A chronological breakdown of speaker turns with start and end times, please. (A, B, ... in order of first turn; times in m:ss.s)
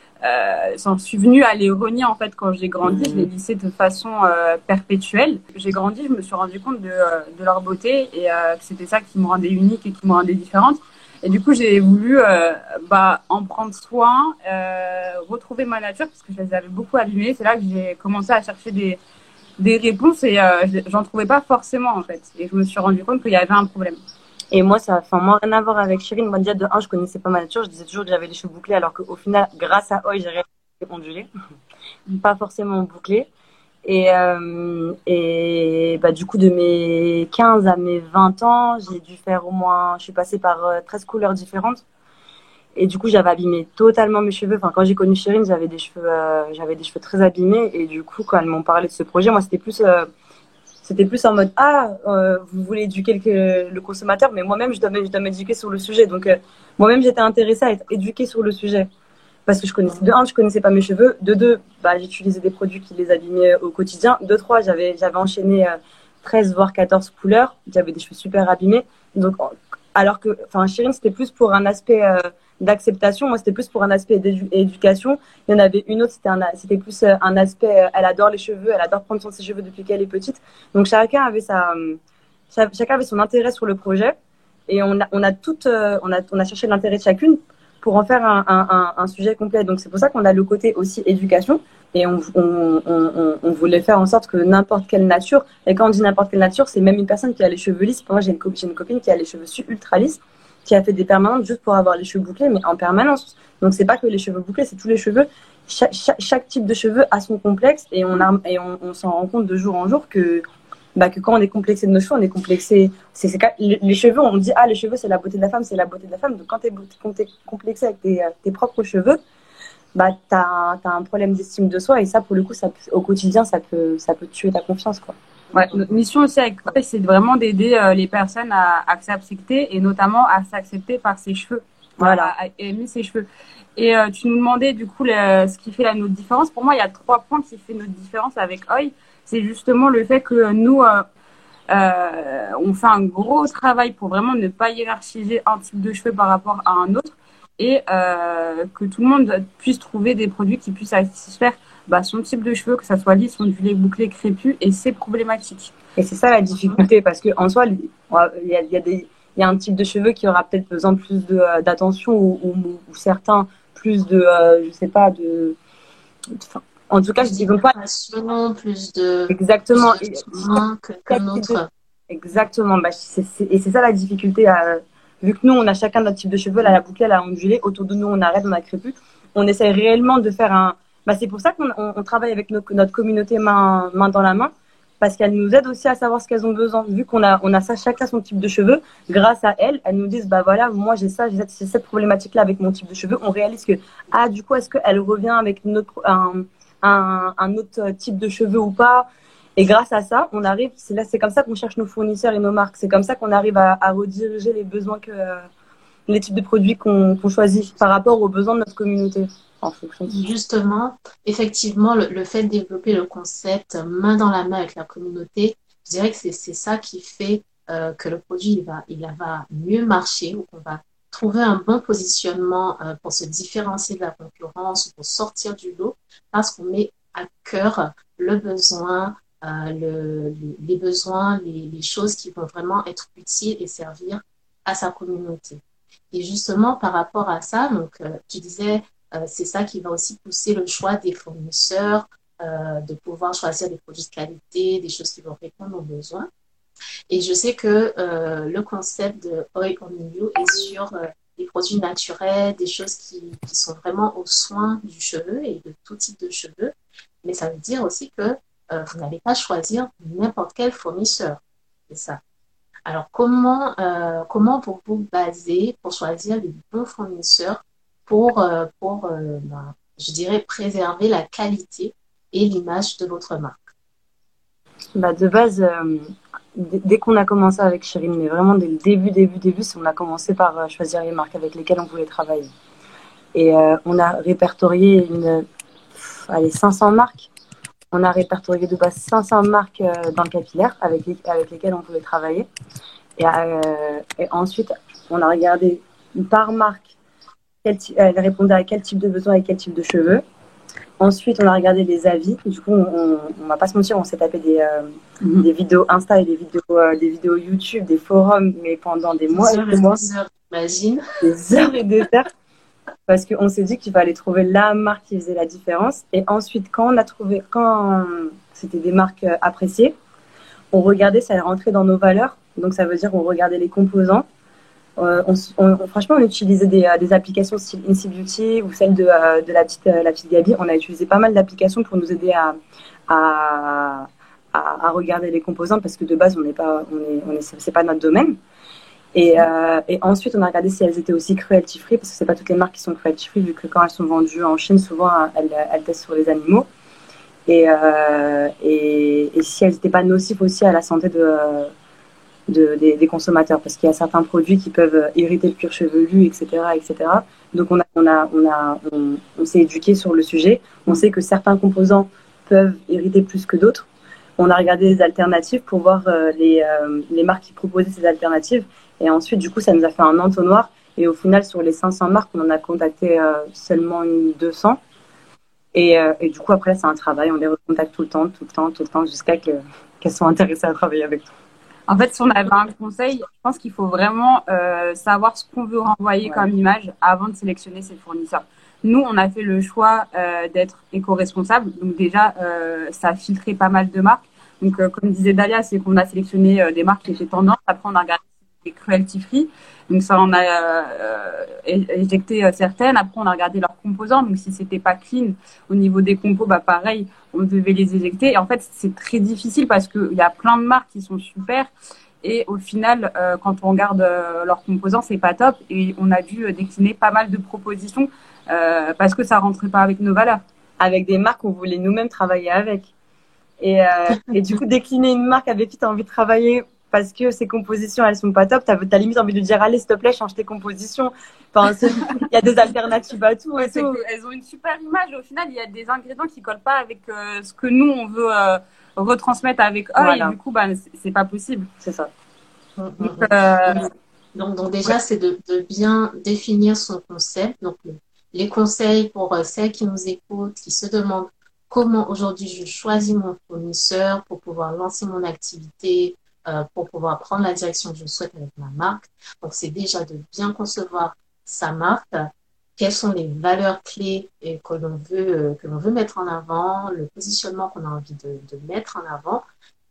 0:00.2-0:19.0 A
0:19.6-0:24.0 A
0:24.5-0:31.3 B
0:32.2-0:33.3 B
0:33.8-0:41.8 B
0:42.8-0:50.1 B
0:50.8-0:58.9 B
0:59.5-1:22.0 B
1:22.5-1:24.1 B
1:24.7-1:50.4 B
1:51.0-1:59.2 B
1:59.9-2:05.1 B
2:05.5-2:21.1 A
2:12.0-2:12.3 B
2:21.7-2:35.7 A
2:36.0-2:45.6 B
2:46.3-2:47.7 B
2:47.2-2:51.7 C
2:49.3-2:51.6 B
2:52.1-3:25.5 B
3:26.1-3:30.3 B
3:30.1-4:06.3 C
4:07.1-4:22.2 C
4:22.9-4:33.6 C
4:35.0-4:42.5 B
4:43.3-4:47.3 B
4:47.9-4:52.5 B
4:53.2-4:56.9 B
4:57.6-5:00.2 B
5:01.0-5:10.0 B
5:09.3-5:11.0 C
5:11.2-5:12.3 B
5:13.1-5:19.9 B
5:20.7-5:24.2 B
5:25.0-5:32.6 B
5:33.1-5:38.4 B
5:39.1-5:46.7 B
5:47.5-5:51.7 B
5:52.5-6:03.9 B
6:04.4-6:14.8 B
6:15.7-6:21.3 B
6:21.9-6:51.7 A
6:52.2-7:00.4 A
7:00.8-7:02.9 B
7:03.6-7:14.0 B
7:13.6-7:21.7 A
7:20.0-7:20.4 B
7:21.8-7:22.1 B
7:22.8-7:49.4 C
7:23.0-7:23.8 A